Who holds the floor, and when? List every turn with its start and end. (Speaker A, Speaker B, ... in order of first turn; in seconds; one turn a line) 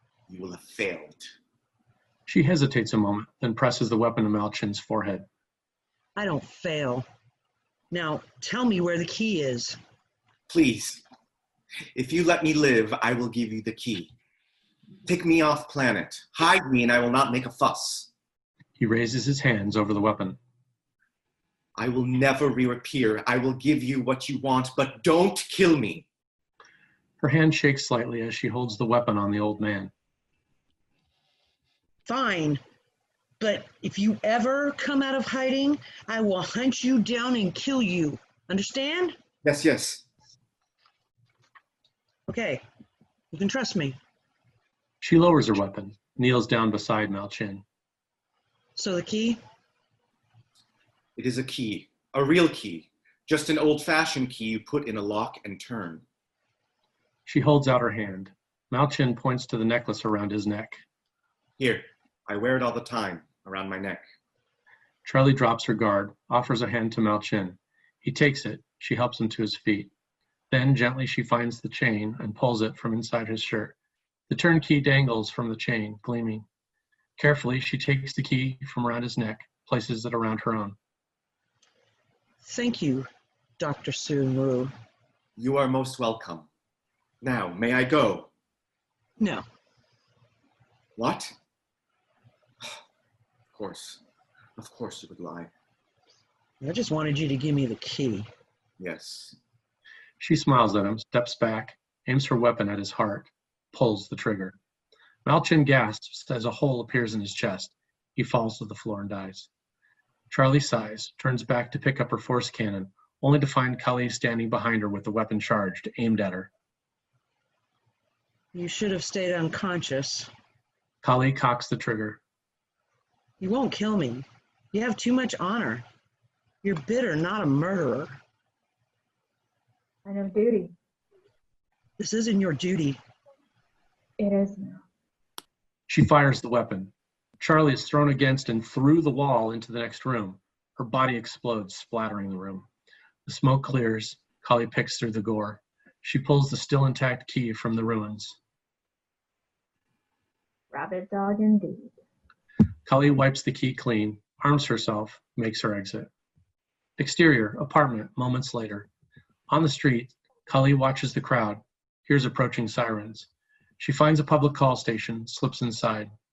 Speaker A: 0.3-1.3
Speaker B: 2.3-5.3
Speaker C: 6.2-7.0
Speaker C: 7.9-9.8
Speaker A: 10.5-11.0
Speaker A: 11.9-14.1
Speaker A: 15.1-18.1
Speaker B: 18.8-20.4
Speaker A: 21.8-26.1
Speaker B: 27.2-29.9
Speaker C: 32.0-32.6
Speaker C: 33.4-39.2
Speaker A: 39.4-40.0
Speaker C: 42.3-42.6
Speaker C: 43.3-44.0
Speaker B: 45.0-47.6
Speaker C: 48.8-49.4
Speaker A: 51.2-56.0
Speaker B: 57.2-60.8
Speaker A: 61.6-64.0
Speaker B: 65.0-69.9
Speaker B: 70.5-73.7
Speaker B: 74.3-76.4
Speaker B: 77.2-80.8
Speaker C: 82.4-83.1
Speaker C: 83.6-84.7
Speaker A: 85.4-86.5
Speaker A: 87.2-88.3
Speaker C: 89.2-89.4
Speaker A: 91.0-91.3
Speaker A: 93.5-94.0
Speaker A: 94.6-95.5
Speaker C: 96.6-98.3
Speaker A: 98.8-99.3
Speaker B: 100.2-104.5
Speaker B: 105.2-109.5
Speaker B: 110.3-116.5
Speaker C: 118.5-120.3
Speaker B: 121.0-122.2
Speaker C: 123.4-125.8
Speaker C: 126.6-128.2
Speaker D: 130.0-130.7
Speaker C: 132.0-133.0
Speaker D: 134.2-134.8
Speaker B: 135.9-142.7
Speaker B: 143.2-148.3
Speaker D: 150.7-151.9
Speaker B: 152.8-156.1
Speaker B: 157.0-158.9
Speaker B: 159.5-163.3
Speaker B: 163.8-166.1